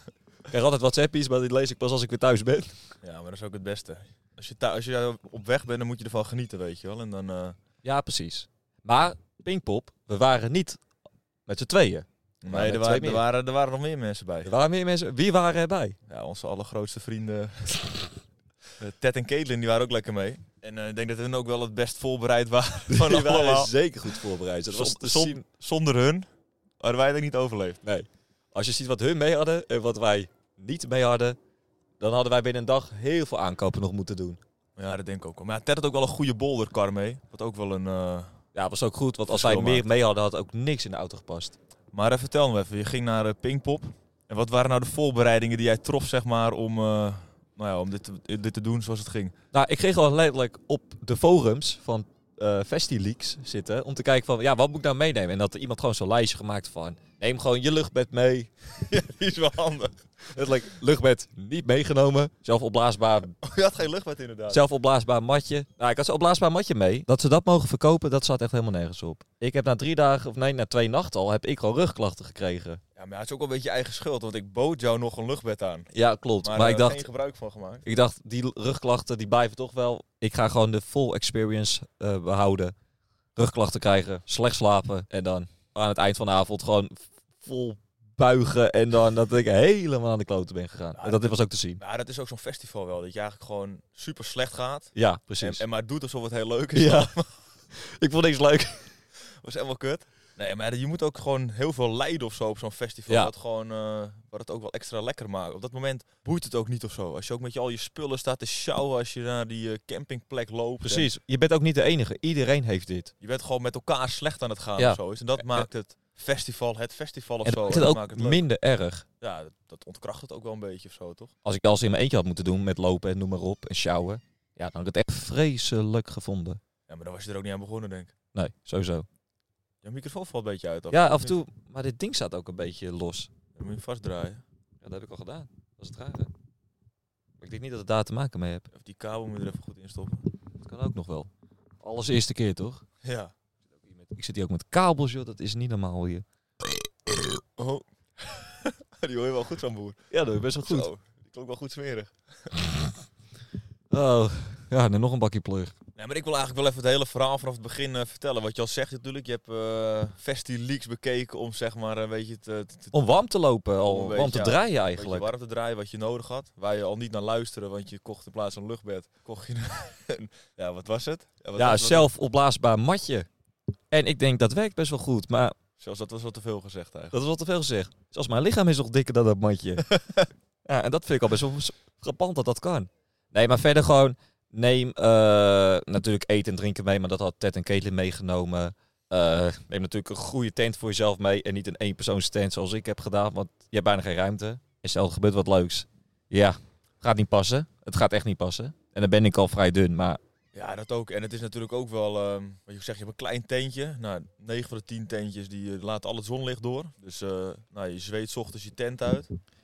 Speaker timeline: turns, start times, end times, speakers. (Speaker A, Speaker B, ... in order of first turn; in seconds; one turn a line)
Speaker A: 0.5-2.8
Speaker B: 3.0-7.6
Speaker A: 7.8-10.8
Speaker A: 11.5-13.2
Speaker B: 12.4-14.5
Speaker A: 14.4-16.0
Speaker B: 16.1-18.1
Speaker B: 18.8-26.3
Speaker A: 22.9-25.4
Speaker B: 26.8-27.8
Speaker A: 27.8-31.4
Speaker A: 32.0-34.4
Speaker B: 34.8-38.4
Speaker A: 38.5-41.6
Speaker B: 39.3-39.9
Speaker B: 41.9-49.3
Speaker A: 49.5-58.5
Speaker B: 58.8-60.0
Speaker A: 60.3-63.4
Speaker B: 63.4-64.6
Speaker A: 64.5-72.8
Speaker B: 73.0-75.9
Speaker A: 75.9-77.0
Speaker B: 76.4-77.9
Speaker A: 77.8-82.7
Speaker A: 83.4-91.8
Speaker B: 91.0-97.3
Speaker A: 95.0-95.6
Speaker A: 96.8-97.1
Speaker A: 97.7-98.9
Speaker B: 99.2-111.1
Speaker A: 110.8-113.1
Speaker B: 113.2-118.4
Speaker A: 114.8-115.7
Speaker A: 117.4-119.1
Speaker B: 119.2-121.3
Speaker A: 121.5-126.6
Speaker B: 126.9-128.1
Speaker A: 128.3-129.1
Speaker B: 129.8-131.3
Speaker A: 130.9-133.3
Speaker B: 133.6-134.4
Speaker A: 134.8-136.3
Speaker A: 137.4-138.7
Speaker B: 138.7-140.3
Speaker A: 140.6-141.3
Speaker A: 141.8-142.8
Speaker B: 143.0-143.3
Speaker A: 144.1-146.2
Speaker B: 147.2-150.0
Speaker A: 150.1-150.9
Speaker B: 150.7-152.5
Speaker A: 153.9-155.7
Speaker B: 156.0-163.2
Speaker A: 162.9-165.3
Speaker B: 163.9-172.1
Speaker A: 171.6-173.3
Speaker A: 173.9-175.6
Speaker B: 175.8-177.2
Speaker A: 177.1-180.0
Speaker B: 179.9-180.2
Speaker A: 180.7-200.2
Speaker B: 200.5-209.3